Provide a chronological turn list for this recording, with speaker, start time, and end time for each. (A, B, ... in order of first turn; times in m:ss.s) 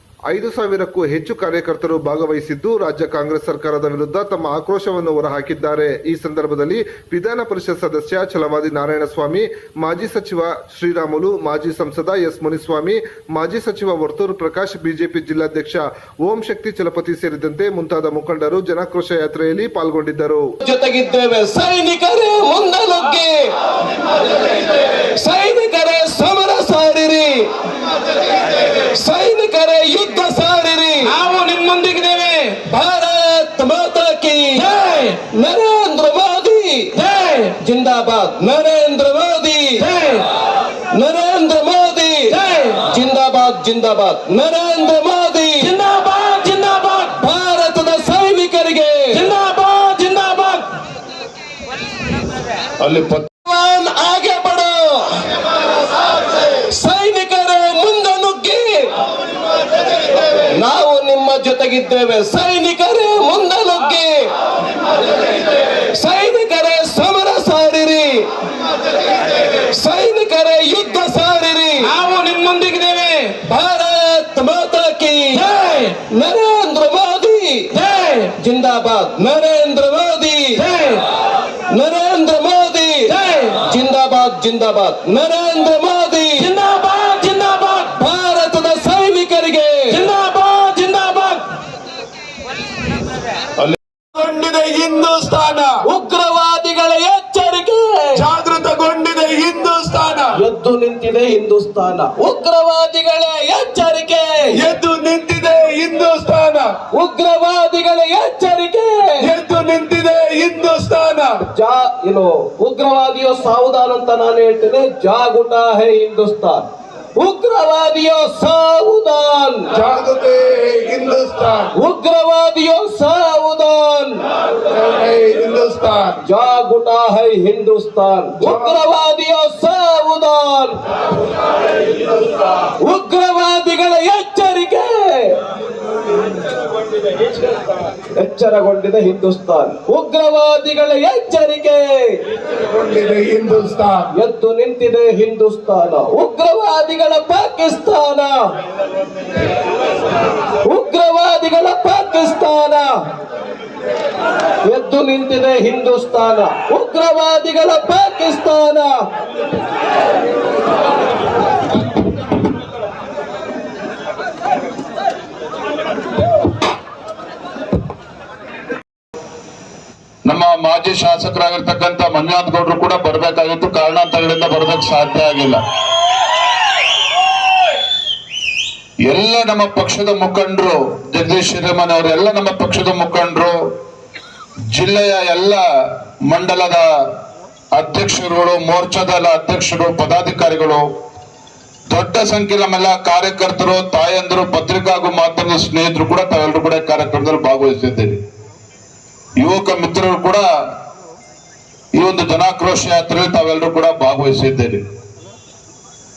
0:00.3-0:20.4 A
0:20.6-0:23.5 B
0:25.2-0:27.5 B
0:28.9-0:31.2 B
0:31.1-0:32.6 C
0:32.6-0:37.0 B
0:34.7-0:35.1 C
0:37.0-0:37.5 C
0:37.6-0:39.9 B
0:39.8-0:40.2 C
0:40.9-0:45.7 B
0:42.3-0:42.7 C
0:45.6-0:47.1 C
0:47.1-0:49.2 B
0:49.2-0:50.7 C
0:52.8-0:55.2 B
0:56.7-0:58.9 B
1:00.6-1:04.3 B
1:05.9-1:08.3 B
1:09.7-1:11.9 B
1:12.0-1:13.3 C
1:13.4-1:17.8 B
1:15.6-1:15.9 C
1:17.8-1:18.3 C
1:18.3-1:20.7 B
1:20.7-1:21.0 C
1:21.7-1:26.5 B
1:23.1-1:23.6 C
1:26.4-1:27.8 C
1:27.8-1:30.0 B
1:29.9-1:31.4 C
1:33.6-1:35.8 D
1:35.8-1:38.2 B
1:38.2-1:40.3 D
1:40.3-1:44.7 B
1:44.6-1:46.7 D
1:46.9-1:49.3 B
1:49.2-1:51.4 D
1:51.4-1:59.7 B
1:59.7-2:01.7 D
2:01.7-2:04.2 B
2:04.7-2:06.2 D
2:06.2-2:10.8 B
2:08.4-2:08.8 D
2:12.8-2:15.3 B
2:18.2-2:22.2 B
2:22.7-2:24.1 D
2:24.1-2:28.4 B
2:30.6-2:32.9 B
2:34.6-2:39.0 B
2:50.2-2:55.6 E
2:59.0-3:03.6 E
3:04.7-3:06.8 E
3:07.7-3:10.8 E
3:11.9-3:18.2 E
3:19.4-3:20.4 E
3:22.0-3:24.8 E